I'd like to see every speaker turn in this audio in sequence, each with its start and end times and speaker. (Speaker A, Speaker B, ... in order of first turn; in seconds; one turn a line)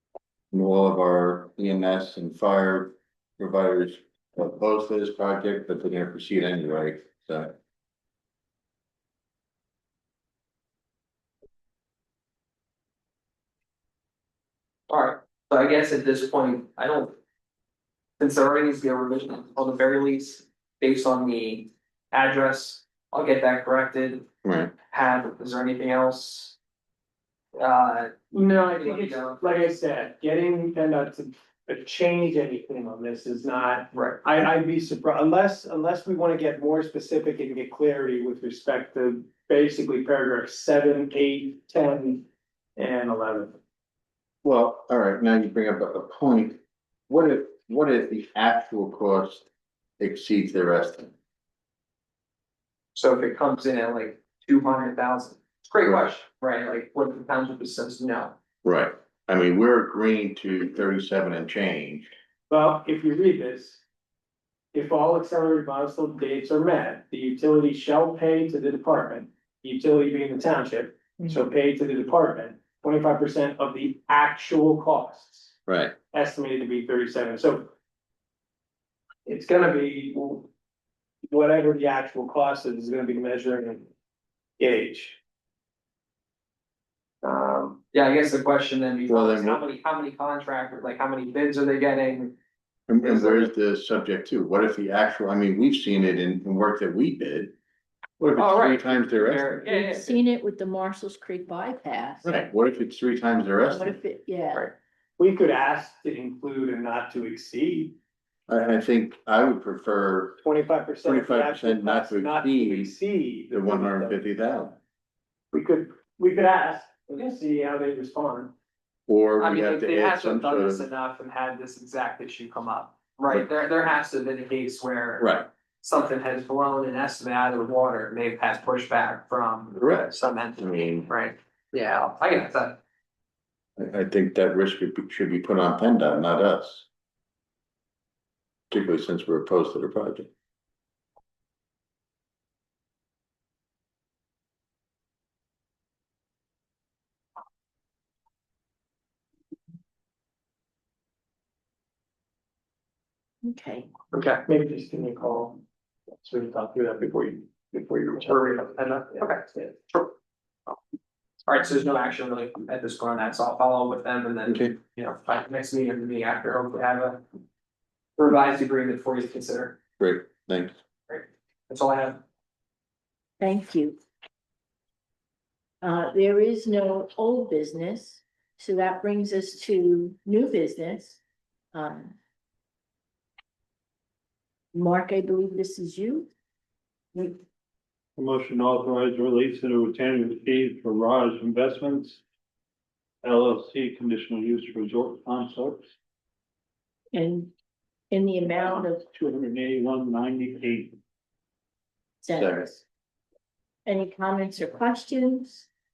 Speaker A: 0.5-7.5
Speaker B: 14.9-17.2
Speaker B: 18.2-24.3
Speaker A: 24.4-24.7
Speaker B: 24.9-26.6
Speaker B: 27.6-29.7
Speaker C: 28.3-43.6
Speaker B: 33.9-34.2
Speaker A: 44.4-49.5
Speaker A: 50.0-51.1
Speaker B: 53.0-58.4
Speaker A: 58.6-62.1
Speaker C: 62.5-63.8
Speaker C: 64.7-75.5
Speaker A: 75.7-76.0
Speaker C: 76.1-77.7
Speaker C: 79.3-80.5
Speaker C: 81.3-83.9
Speaker C: 84.6-85.2
Speaker C: 87.2-87.7
Speaker B: 87.5-92.4
Speaker A: 89.1-89.6
Speaker A: 92.9-97.5
Speaker B: 93.1-93.5
Speaker A: 98.2-99.7
Speaker B: 98.4-100.2
Speaker D: 99.7-102.3
Speaker A: 102.2-104.0
Speaker D: 103.7-104.7
Speaker C: 105.2-108.0
Speaker A: 108.5-110.4
Speaker C: 110.4-114.2
Speaker A: 111.0-112.9
Speaker A: 113.5-114.8
Speaker C: 115.5-118.5
Speaker A: 119.1-120.9
Speaker B: 119.4-132.8
Speaker A: 125.2-125.5
Speaker A: 129.8-131.1
Speaker A: 133.8-136.9
Speaker A: 138.7-140.3
Speaker D: 153.4-153.9
Speaker B: 154.1-154.4
Speaker C: 154.4-155.6
Speaker C: 156.2-159.7
Speaker B: 158.3-160.1
Speaker B: 161.5-167.2
Speaker A: 164.5-164.8
Speaker B: 168.2-169.8
Speaker A: 170.0-170.8
Speaker B: 171.1-172.2
Speaker D: 173.4-174.0
Speaker D: 175.8-181.2
Speaker D: 181.7-182.2
Speaker D: 184.7-186.3
Speaker D: 187.2-187.4
Speaker E: 188.2-192.2
Speaker E: 193.2-195.9
Speaker D: 197.1-197.5
Speaker D: 198.1-199.1
Speaker E: 199.1-201.0
Speaker D: 202.2-202.8
Speaker A: 202.3-202.7
Speaker D: 203.9-205.7